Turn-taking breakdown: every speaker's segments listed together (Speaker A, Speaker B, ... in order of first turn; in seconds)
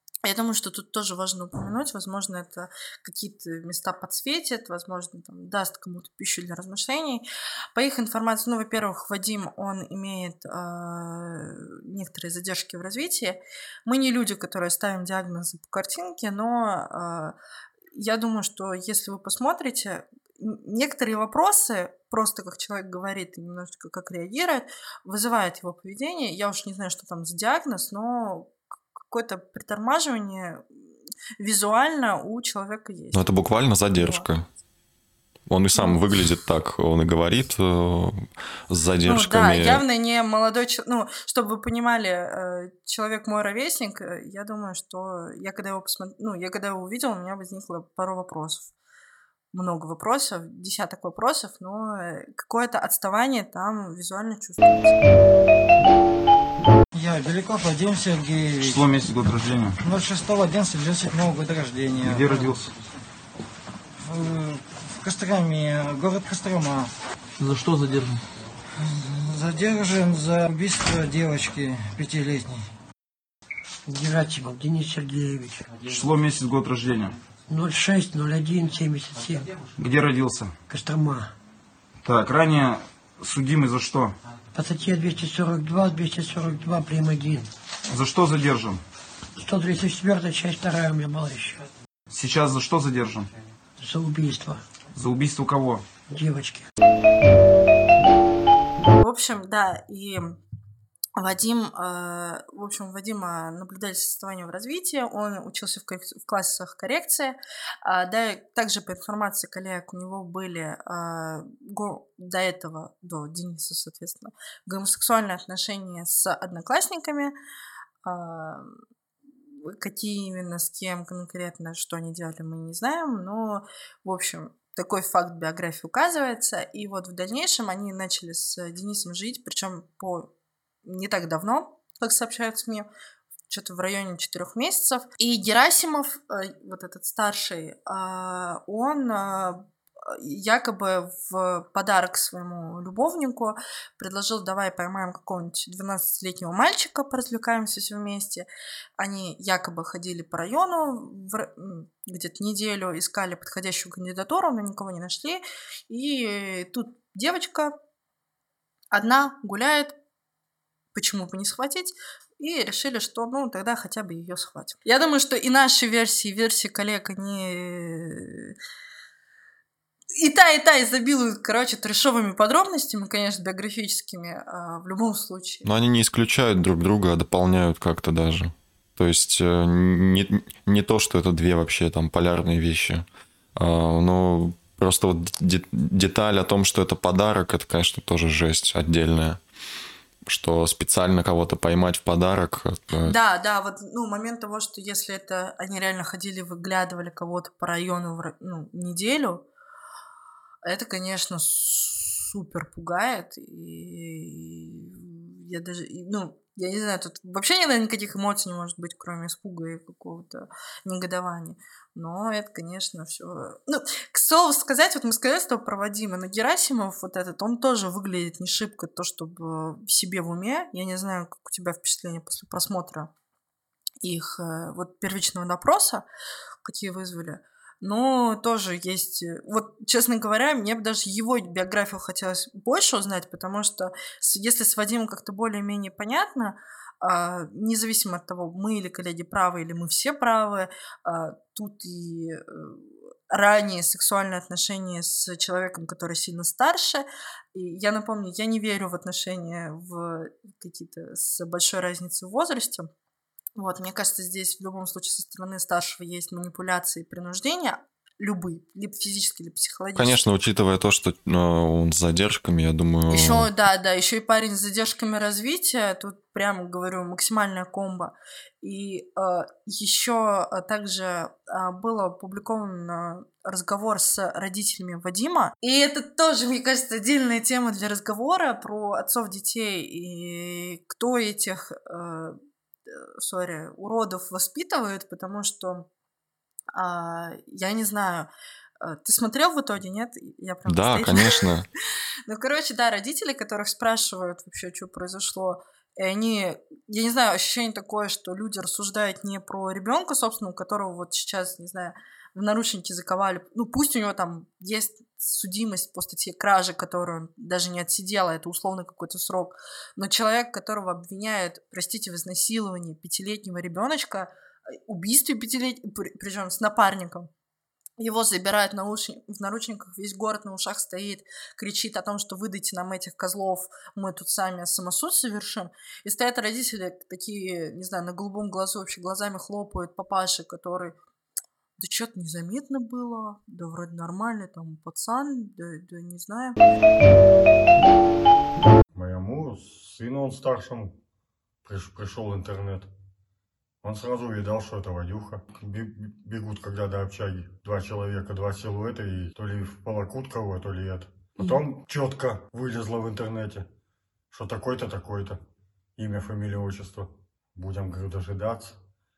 Speaker A: 0.2-17.4, 17.9-28.5, 29.1-30.6, 31.4-33.3, 33.9-34.3, 39.0-48.7, 49.5-55.0, 99.0-100.4, 101.2-117.3, 118.0-118.8, 119.6-130.3, 130.8-132.9, 133.5-157.8, 158.9-160.0, 160.9-168.6, 170.1-175.7, 193.0-199.5, 200.6-223.1, 224.0-226.1, 226.6-252.9, 253.6-260.2, 263.1-282.4, 282.9-285.9, 286.7-291.4, 292.3-317.3, 318.0-331.0, 331.8-336.6
Speaker B: 33.1-34.5, 35.5-39.8, 175.7-189.4, 190.3-193.2, 260.0-263.5, 290.7-291.7
Speaker C: 56.9-58.9, 59.8-62.6, 64.0-66.9, 68.8-72.7
Speaker D: 58.6-59.8, 62.0-62.7, 67.4-68.2, 75.8-77.2, 79.8-80.5, 82.0-84.1, 87.9-88.8, 92.1-93.3, 95.0-95.8
Speaker E: 73.9-75.7, 77.5-79.5, 80.7-81.3, 84.5-87.5, 89.4-91.7, 93.8-94.6, 96.1-96.7
Speaker F: 338.9-341.0, 341.6-342.9, 343.8-353.7, 354.3-355.4, 356.0-358.8